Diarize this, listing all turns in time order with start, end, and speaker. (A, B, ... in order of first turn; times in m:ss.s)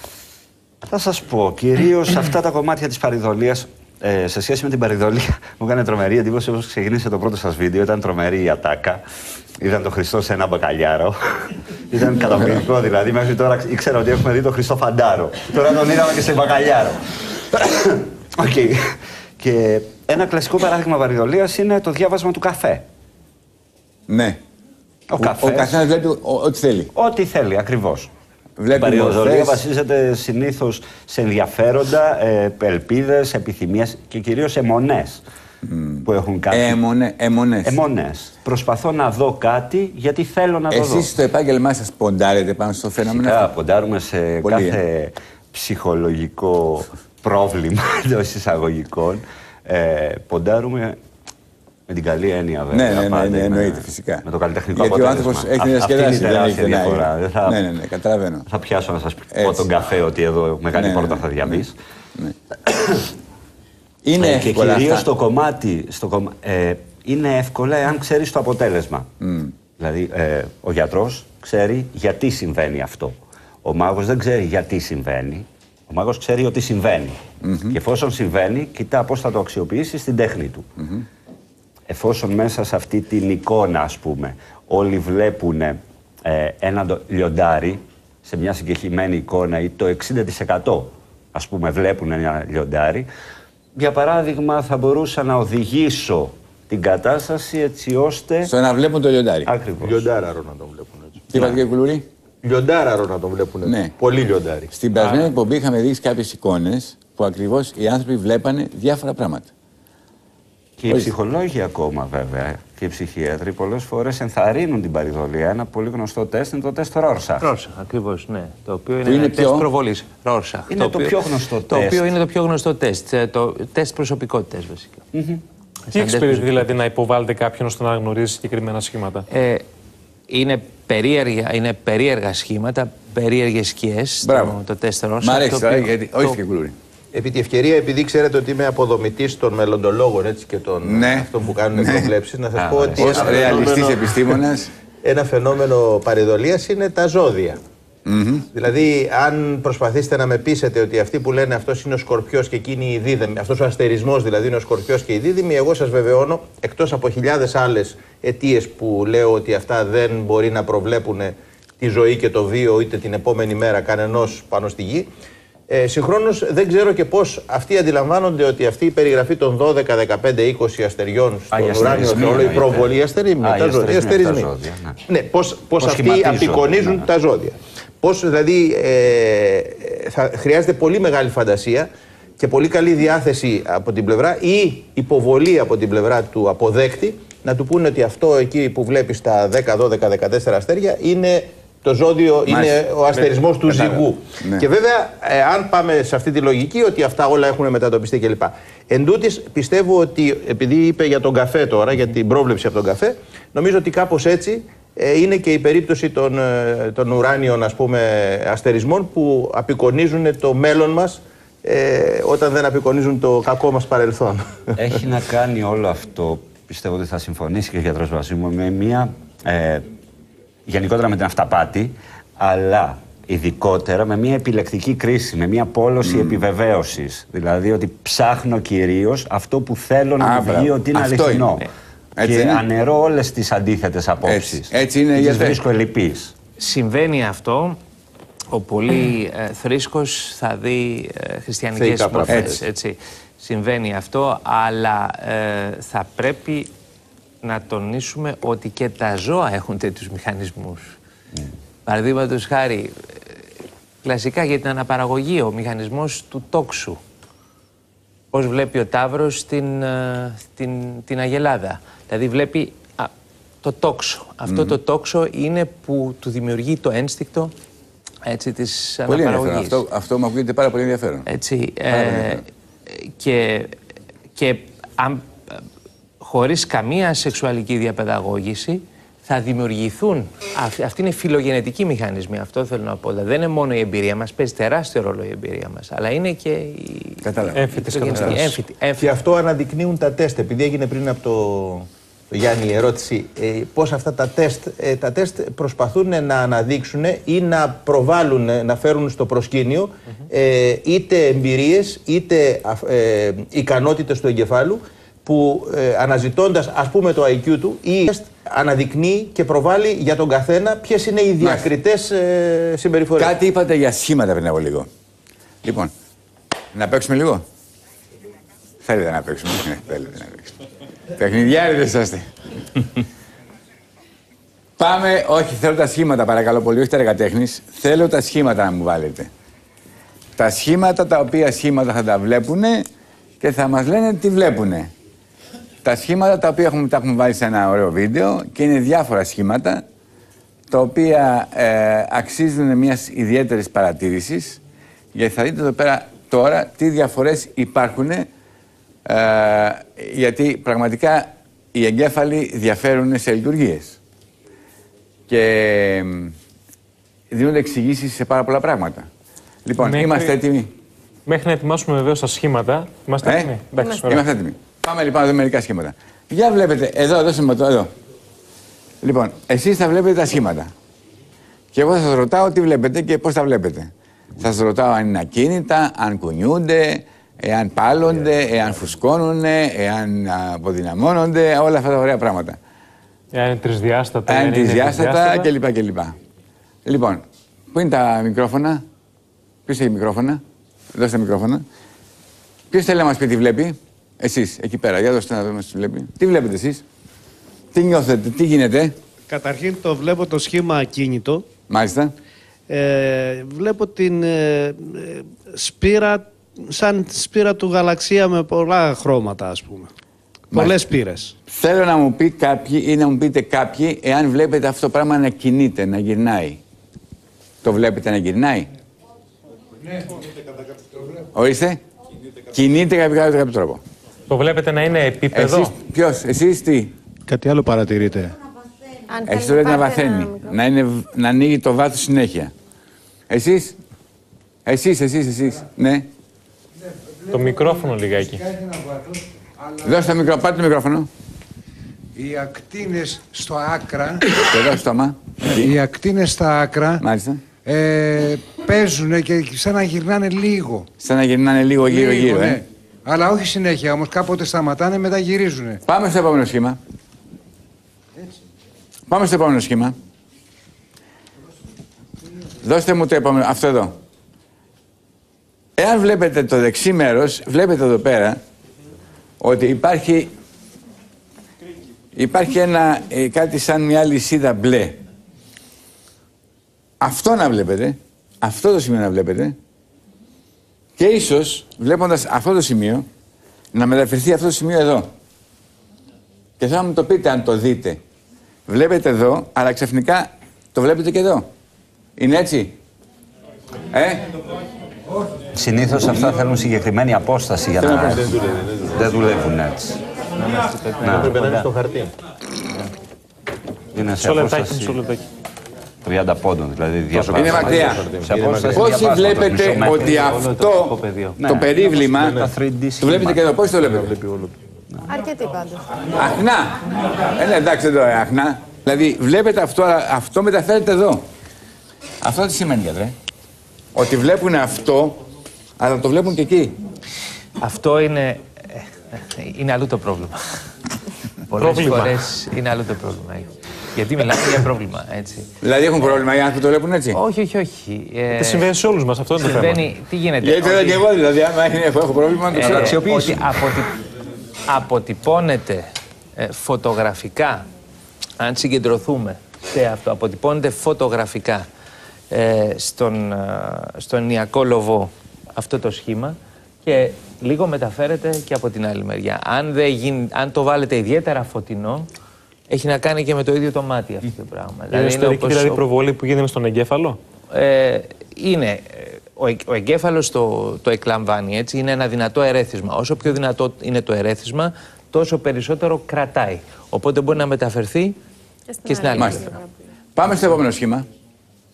0:00.8-0:09.0 A
0:09.6-0:11.2 A
0:11.9-0:17.0 A
0:17.5-0:22.8 A
0:24.1-0:24.4 B
0:25.1-0:25.8 A
0:25.2-0:26.9 B
0:26.9-0:28.1 A
0:28.6-0:29.6 B
0:28.7-0:35.2 A
0:35.6-0:37.8 B
0:36.0-0:36.8 A
0:37.6-0:41.1 A
0:40.7-0:43.5 B
0:43.0-0:51.0 A
0:44.4-0:44.8 B
0:51.9-0:57.6 A
0:52.7-0:58.5 B
0:58.5-1:01.7 A
0:59.3-0:59.7 B
1:00.7-1:01.6 B
1:04.0-1:05.0 B
1:04.2-1:09.1 A
1:09.2-1:09.5 B
1:09.8-1:17.2 A
1:17.4-1:17.8 B
1:17.7-1:20.6 A
1:20.8-1:21.0 B
1:21.9-1:33.1 A
1:33.8-1:38.5 A
1:38.4-1:39.5 B
1:39.4-1:40.0 A
1:39.8-1:41.3 C
1:41.3-1:42.0 B
1:41.3-1:41.6 A
1:42.4-1:44.7 C
1:43.6-1:43.9 B
1:44.7-1:49.5 B
1:45.0-1:45.3 D
1:50.8-1:57.5 A
1:57.4-2:05.0 E
1:59.0-1:59.7 B
2:00.7-2:02.0 A
2:05.1-2:05.4 A
2:05.9-2:06.7 E
2:05.9-2:09.3 D
2:09.3-2:09.6 E
2:10.3-2:16.4 E
2:14.2-2:14.6 B
2:15.2-2:16.7 B
2:17.1-2:24.3 C
2:20.8-2:22.1 B
2:22.5-2:23.7 A
2:23.0-2:24.7 B
2:25.0-2:27.6 C
2:28.0-2:28.5 B
2:28.5-2:45.1 C
2:45.7-2:54.5 C
2:51.5-2:55.0 A
2:55.1-3:34.7 C
2:55.8-2:57.1 A
3:12.5-3:14.6 B
3:34.8-3:39.9 A
3:40.7-3:51.6 A
3:46.0-3:46.4 B
3:50.2-3:51.5 B
3:52.2-3:52.6 B
3:52.2-3:56.3 A
3:54.2-3:55.6 B
3:56.6-3:57.8 E
3:58.5-4:06.7 E
4:01.7-4:02.6 C
4:02.3-4:02.6 B
4:07.4-4:10.9 E
4:11.8-4:13.0 E
4:14.0-4:17.0 E
4:18.3-4:23.1 E
4:23.6-4:27.5 E
4:24.4-4:24.8 B
4:28.3-4:29.8 E
4:29.1-4:31.3 B
4:31.3-4:33.7 E
4:31.9-4:32.4 B
4:34.4-4:35.6 E
4:36.2-4:49.1 E
4:47.2-4:48.4 B
4:47.5-4:48.6 D
4:49.0-5:13.3 C
5:11.4-5:11.7 B
5:13.2-5:14.9 B
5:15.6-5:15.9 B
5:16.7-5:17.4 B
5:18.8-5:20.5 B
5:21.2-5:22.3 B
5:24.8-5:29.3 B
5:30.4-5:32.9 B
5:33.4-5:34.9 B
5:35.8-5:39.8 B
5:40.7-5:44.6 B
5:45.1-5:48.3 B
5:49.0-5:54.0 B
5:55.3-5:56.3 B
5:57.3-5:59.1 B
5:59.6-6:00.7 B
5:59.8-6:00.4 D
6:01.2-6:04.2 D
6:03.2-6:07.9 B
6:09.0-6:10.7 B
6:11.7-6:22.6 B
6:23.3-6:25.5 D
6:24.3-6:26.2 B
6:26.8-6:28.8 B
6:29.7-6:30.4 B
6:30.9-6:31.6 B
6:32.7-6:36.8 B
6:37.7-6:39.0 B
6:39.3-6:41.4 F
6:41.7-6:42.1 B
6:42.7-6:49.9 F
6:50.5-6:50.8 B
6:50.5-6:51.3 F
6:51.5-6:56.6 B
6:57.6-6:58.7 B
6:59.8-7:00.2 G
7:00.8-7:01.2 G
7:01.3-7:01.8 B
7:02.5-7:03.8 B
7:04.3-7:05.7 D
7:05.3-7:06.9 B
7:07.3-7:08.4 F
7:09.1-7:10.6 H
7:09.3-7:12.5 B
7:13.3-7:13.8 B
7:14.6-7:16.1 B
7:16.8-7:20.1 G
7:17.3-7:18.4 D
7:19.8-7:21.1 B
7:22.2-7:24.3 G
7:24.5-7:25.7 B
7:25.5-7:27.0 G
7:27.0-7:27.4 B
7:27.6-7:30.9 G
7:31.0-7:32.6 B
7:31.8-7:35.8 G
7:35.8-7:36.8 B
7:39.1-7:40.0 B
7:42.6-7:44.0 B
7:45.8-7:48.4 B
7:49.4-7:50.3 B
7:52.1-7:55.0 B
7:57.0-7:59.5 B
8:01.0-8:03.1 B
8:03.7-8:05.1 B
8:06.6-8:08.0 B
8:08.7-8:11.5 B
8:12.2-8:12.8 B
8:13.9-8:14.2 B
8:15.5-8:18.4 A
8:17.8-8:18.3 B
8:18.2-8:19.1 C
8:18.9-8:20.0 A
8:20.4-8:21.7 E
8:21.0-8:21.3 A
8:21.0-8:22.1 C
8:23.9-8:25.0 A
8:24.2-8:25.2 D
8:26.0-8:30.4 A
8:27.1-8:28.9 C
8:27.3-8:28.0 B
8:28.8-8:32.4 B
8:29.7-8:31.4 E
8:31.4-8:33.4 A
8:33.0-8:34.1 B
8:35.0-8:35.9 H
8:36.1-8:41.3 B
8:42.2-8:43.1 B
8:43.9-8:45.2 B
8:45.8-8:46.8 B
8:47.6-8:50.4 E
8:51.5-8:55.5 E
8:51.6-8:52.2 D
8:55.6-8:57.2 B
8:57.1-8:58.7 E
8:58.4-8:59.9 D
8:59.4-9:01.0 E
9:00.4-9:03.5 B
9:02.5-9:03.9 E
9:04.7-9:07.7 E
9:08.4-9:11.6 E
9:12.3-9:22.1 E
9:22.7-9:25.8 E
9:24.9-9:27.2 D
9:27.5-9:38.2 E
9:38.7-9:39.8 H
9:38.8-9:39.6 E
9:39.2-9:39.4 B
9:40.2-9:41.1 B